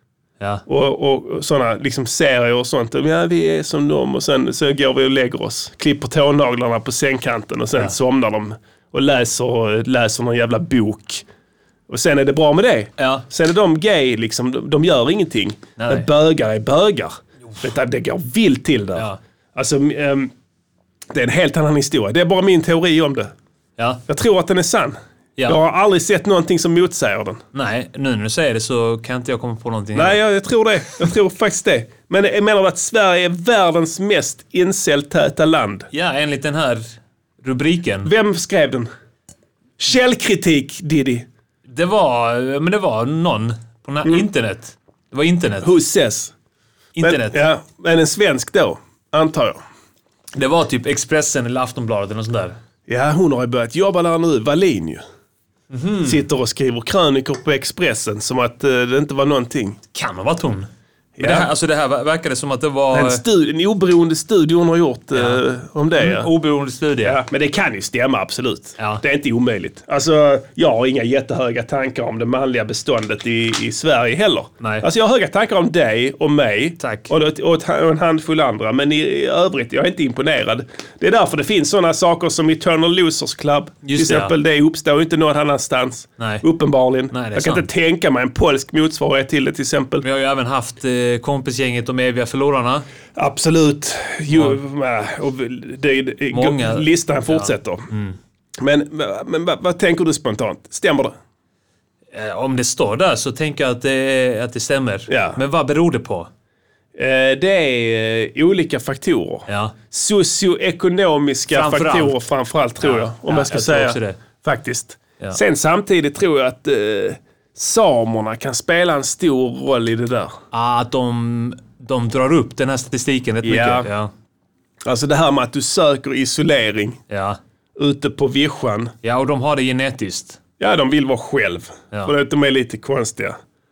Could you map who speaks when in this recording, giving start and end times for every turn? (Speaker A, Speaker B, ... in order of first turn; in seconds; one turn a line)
Speaker A: 0.7-11.2
Speaker A: 11.9-20.3
Speaker B: 13.0-13.2
Speaker B: 15.8-16.1
Speaker A: 21.1-23.3
Speaker A: 24.1-27.4
Speaker B: 27.5-30.2
Speaker A: 29.9-35.9
Speaker B: 35.9-38.1
Speaker A: 38.0-38.9
Speaker A: 39.8-41.2
Speaker B: 41.7-45.7
Speaker A: 45.6-46.3
Speaker B: 47.0-47.4
Speaker A: 47.0-49.6
Speaker B: 50.4-52.6
Speaker A: 52.9-55.0
Speaker B: 55.7-56.2
Speaker A: 56.0-59.8
Speaker B: 59.9-60.7
Speaker A: 61.2-61.5
Speaker B: 61.2-63.2
Speaker A: 62.9-66.3
Speaker B: 65.1-65.4
Speaker B: 66.0-67.2
Speaker A: 67.0-90.0
Speaker B: 76.8-77.1
Speaker B: 83.8-84.3
Speaker B: 86.2-86.4
Speaker B: 87.1-87.7
Speaker B: 90.0-92.8
Speaker A: 93.2-97.8
Speaker B: 94.3-94.6
Speaker B: 96.3-98.2
Speaker A: 98.6-101.1
Speaker B: 102.1-106.3
Speaker A: 105.1-105.4
Speaker A: 107.0-120.4
Speaker B: 109.5-109.7
Speaker B: 111.5-112.2
Speaker B: 112.8-114.2
Speaker B: 120.5-124.1
Speaker A: 123.4-123.9
Speaker A: 124.9-127.0
Speaker B: 127.1-127.4
Speaker A: 127.8-128.9
Speaker B: 129.0-130.4
Speaker A: 130.6-133.3